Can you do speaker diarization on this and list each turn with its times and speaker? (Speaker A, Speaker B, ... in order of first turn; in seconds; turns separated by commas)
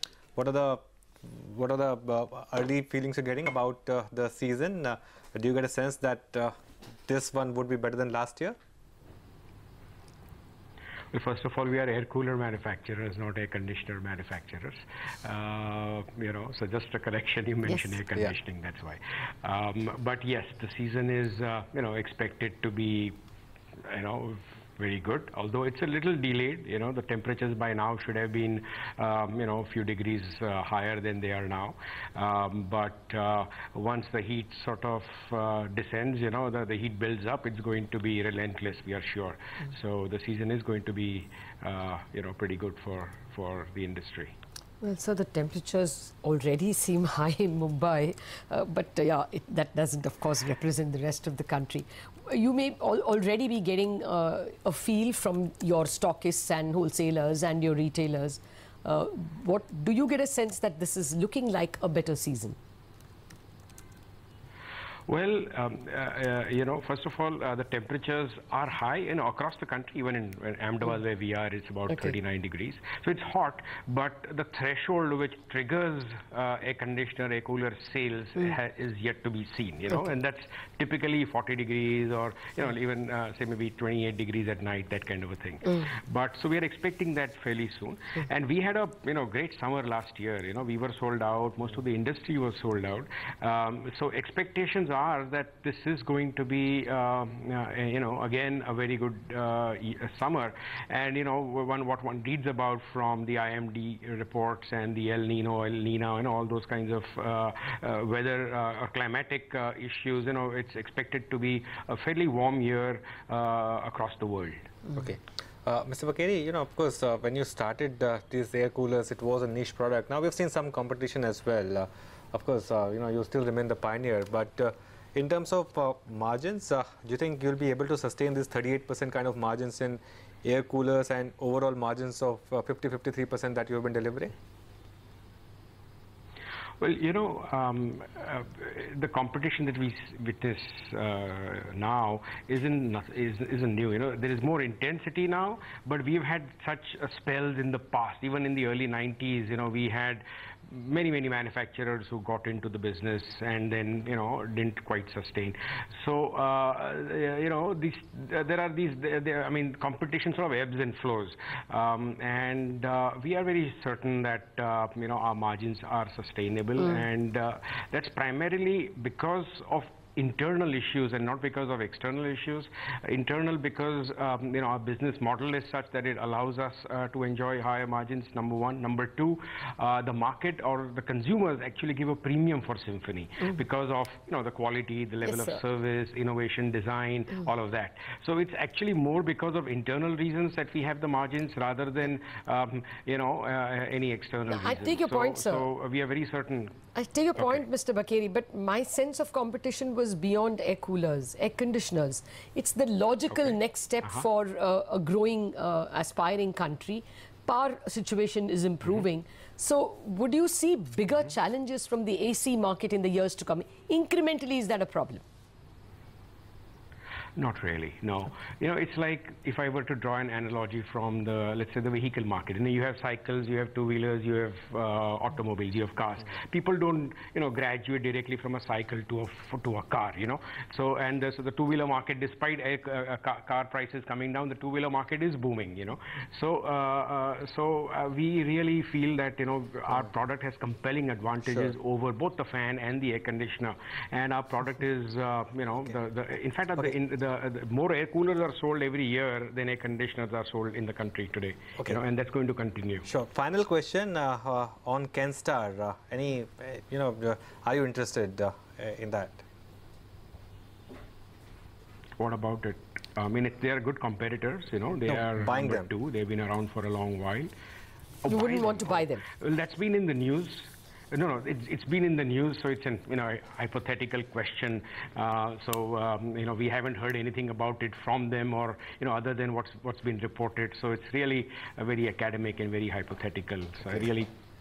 Speaker A: 0.4-6.5, Speaker A: 7.1-8.6, Speaker B: 11.1-23.2, Speaker B: 23.9-44.4, Speaker C: 44.8-62.6, Speaker B: 65.1-114.8, Speaker A: 114.9-134.3, Speaker B: 136.8-196.8, Speaker C: 185.3-185.6, Speaker C: 194.5-195.7, Speaker C: 196.9-215.2, Speaker B: 197.4-197.7, Speaker B: 203.3-204.2, Speaker B: 217.4-253.1, Speaker A: 253.1-259.4, Speaker B: 262.2-267.5, Speaker A: 265.1-265.9, Speaker B: 268.2-284.3, Speaker C: 268.3-269.3